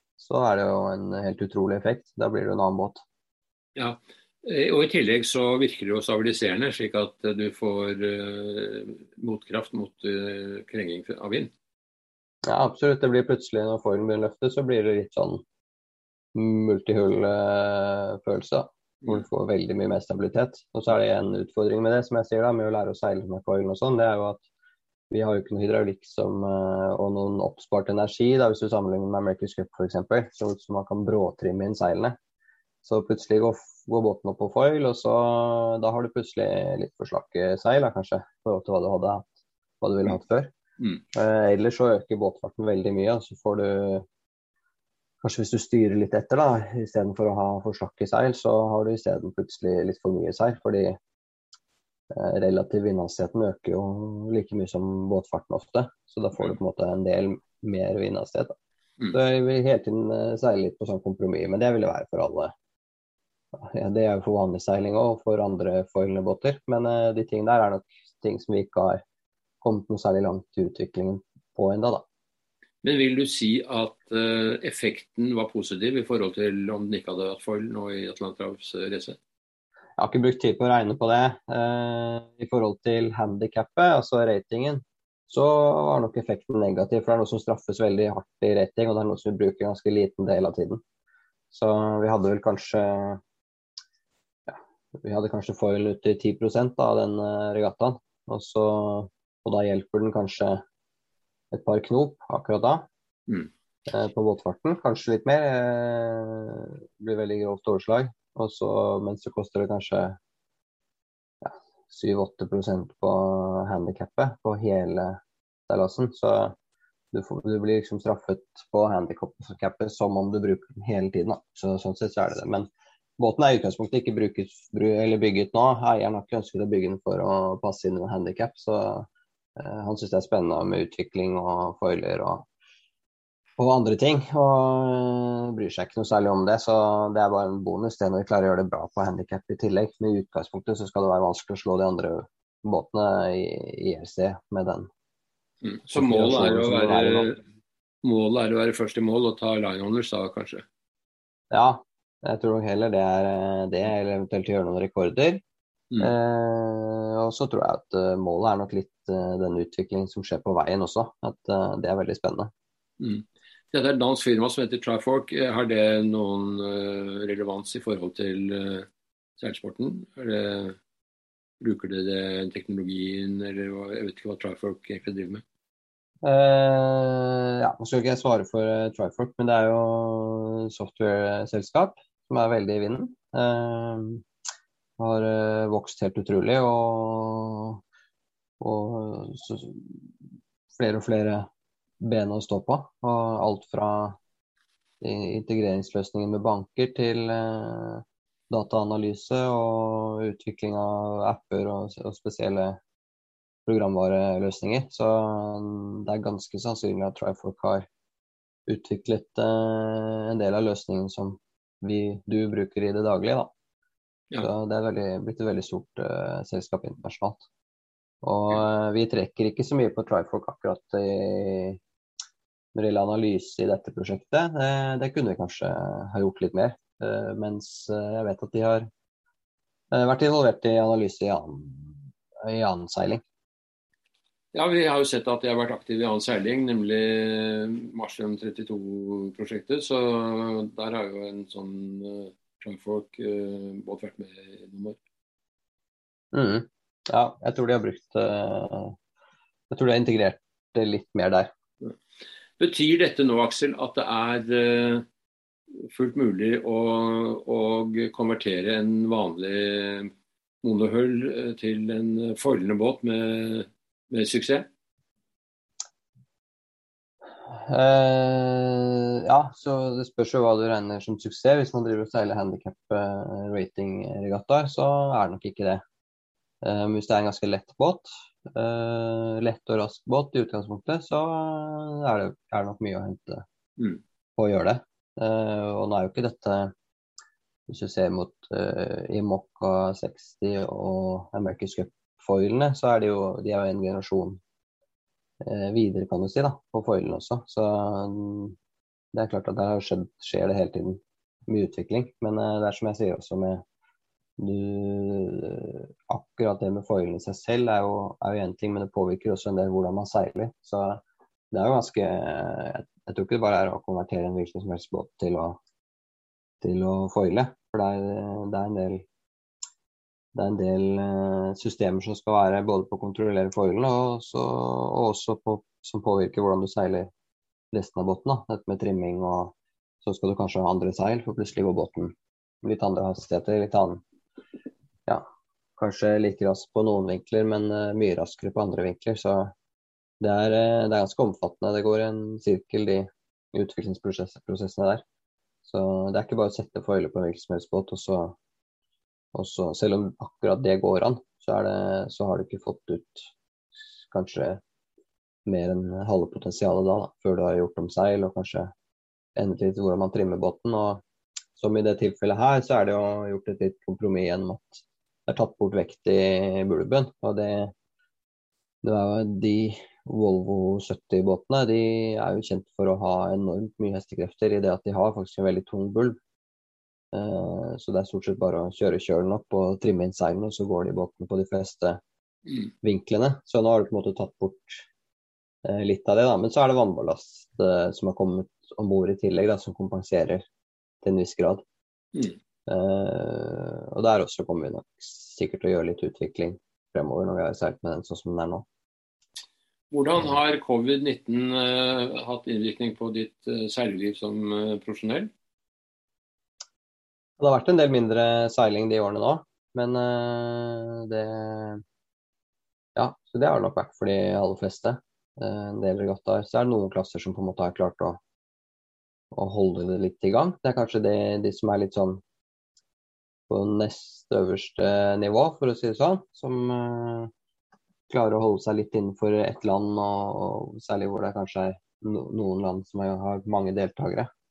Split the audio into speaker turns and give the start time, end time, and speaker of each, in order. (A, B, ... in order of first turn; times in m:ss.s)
0:00.2-0:03.0 A
0:03.8-0:11.5 B
0:12.5-0:15.4 A
0:16.4-0:24.4 A
0:25.1-0:32.2 A
0:32.8-0:39.3 A
0:39.8-0:40.5 A
0:41.1-0:44.0 A
0:45.2-0:51.0 A
0:52.1-0:58.5 A
0:59.1-1:02.5 A
1:03.6-1:09.0 A
1:09.6-1:12.0 A
1:12.8-1:19.2 B
1:20.0-1:30.8 A
1:31.5-1:33.2 A
1:34.5-1:40.6 A
1:41.5-1:42.9 A
1:43.9-1:50.2 A
1:51.4-1:56.6 A
1:57.1-2:02.7 A
2:03.2-2:12.5 A
2:13.6-2:24.9 A
2:25.6-2:27.4 B
2:25.9-2:27.3 A
2:28.0-2:30.6 B
2:31.5-2:35.4 A
2:36.0-2:42.5 A
2:43.0-2:50.8 B
2:51.6-2:55.4 B
2:56.2-3:04.2 A
3:05.0-3:07.8 A
3:08.6-3:10.0 A
3:10.7-3:11.5 A
3:12.0-3:14.2 A
3:15.0-3:22.8 A
3:23.7-3:27.9 A
3:28.7-3:33.5 A
3:34.4-3:37.4 A
3:38.2-3:41.8 A
3:42.8-3:48.9 A
3:49.9-3:53.2 A
3:54.5-4:05.0 B
4:06.3-4:09.0 A
4:09.7-4:11.5 A
4:12.6-4:15.0 B
4:15.8-4:20.1 B
4:20.6-4:24.7 B
4:27.5-4:35.8 A
4:36.6-4:43.4 A
4:44.4-4:46.7 A
4:47.7-4:54.4 A
4:55.4-4:58.6 A
4:59.1-5:03.6 A
5:04.4-5:11.0 A
5:11.5-5:15.6 A
5:16.6-5:19.0 A
5:20.4-5:27.1 A
5:27.7-5:34.0 A
5:35.8-5:39.5 A
5:40.2-5:45.0 A
5:45.6-5:48.4 A
5:49.3-5:53.3 A
5:54.1-5:54.6 A
5:55.5-5:58.7 A
5:59.4-6:01.0 A
6:01.6-6:07.7 A
6:08.8-6:16.2 A
6:17.1-6:22.0 A
6:22.8-6:24.9 A
6:25.6-6:30.4 A
6:31.0-6:31.6 A
6:32.7-6:38.6 A
6:39.9-6:45.3 B
6:47.4-6:51.8 A
6:53.0-6:58.2 A
6:59.3-7:02.2 A
7:03.5-7:07.3 A
7:08.1-7:14.3 A